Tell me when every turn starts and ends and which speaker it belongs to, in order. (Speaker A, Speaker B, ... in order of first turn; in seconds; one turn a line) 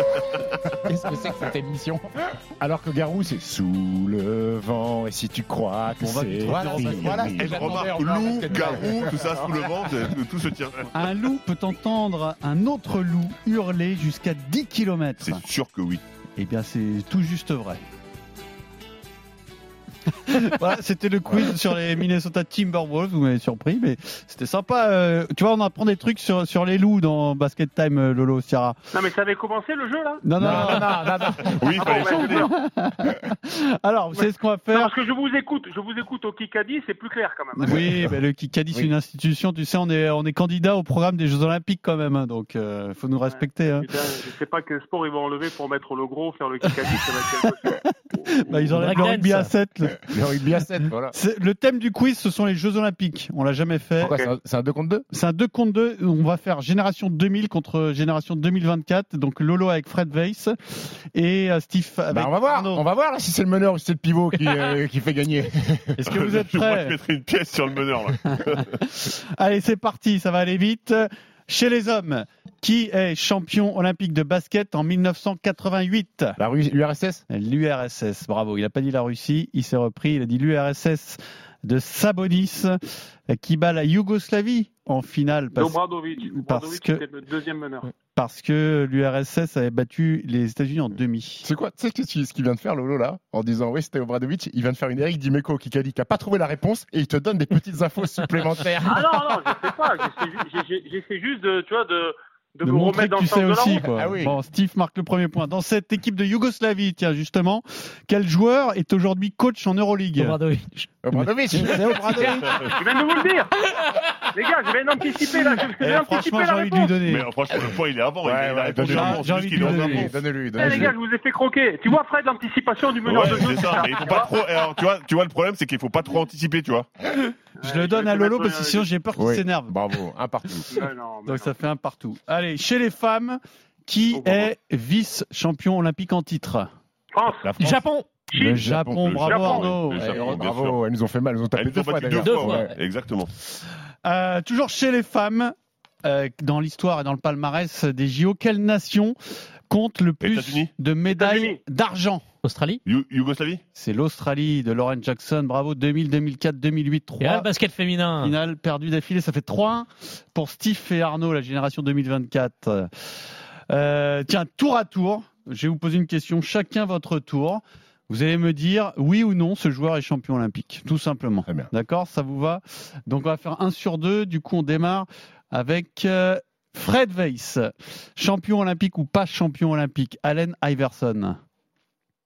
Speaker A: 0.8-9.5
Speaker B: 6.0-8.0
Speaker C: 7.3-10.9
Speaker B: 10.9-15.4
Speaker C: 15.2-16.0
Speaker B: 16.4-17.8
Speaker B: 20.3-28.8
Speaker D: 28.9-30.2
Speaker B: 30.2-31.6
Speaker A: 30.4-32.1
Speaker C: 31.4-32.5
Speaker D: 31.8-32.5
Speaker B: 32.1-34.9
Speaker D: 34.2-37.8
Speaker B: 37.6-43.9
Speaker D: 43.3-48.7
Speaker B: 47.7-50.1
Speaker E: 48.7-49.5
Speaker A: 50.0-51.1
Speaker B: 51.1-54.1
Speaker A: 54.0-55.1
Speaker D: 54.0-54.3
Speaker B: 55.1-62.8
Speaker A: 62.1-66.0
Speaker B: 66.0-66.9
Speaker C: 66.1-68.7
Speaker B: 68.3-76.4
Speaker A: 76.4-77.2
Speaker B: 77.3-82.8
Speaker B: 83.3-87.0
Speaker D: 85.6-87.9
Speaker B: 88.2-91.5
Speaker A: 91.4-99.5
Speaker D: 98.8-103.9
Speaker B: 102.7-110.4
Speaker A: 103.9-104.4
Speaker E: 110.2-110.9
Speaker A: 111.0-112.5
Speaker B: 111.5-112.6
Speaker C: 112.4-112.7
Speaker D: 112.8-113.5
Speaker D: 114.3-116.9
Speaker B: 115.8-117.3
Speaker C: 117.1-120.2
Speaker A: 118.2-121.0
Speaker B: 118.9-120.9
Speaker D: 120.6-124.3
Speaker C: 123.0-126.9
Speaker D: 127.6-128.9
Speaker B: 127.6-129.7
Speaker A: 129.2-130.7
Speaker D: 130.7-131.5
Speaker B: 131.3-136.7
Speaker D: 134.1-134.5
Speaker D: 137.1-137.5
Speaker A: 137.4-137.8
Speaker E: 137.6-138.1
Speaker D: 138.3-138.6
Speaker A: 138.3-142.7
Speaker B: 138.4-140.3
Speaker C: 139.0-140.8
Speaker D: 139.3-139.7
Speaker C: 141.6-143.3
Speaker E: 142.2-142.7
Speaker B: 144.0-149.2
Speaker B: 149.7-152.2
Speaker C: 150.2-150.7
Speaker D: 151.1-151.6
Speaker E: 152.4-152.8
Speaker C: 152.9-153.6
Speaker B: 153.8-157.5
Speaker E: 157.2-158.3
Speaker B: 158.2-162.9
Speaker B: 163.7-181.4
Speaker A: 171.4-171.7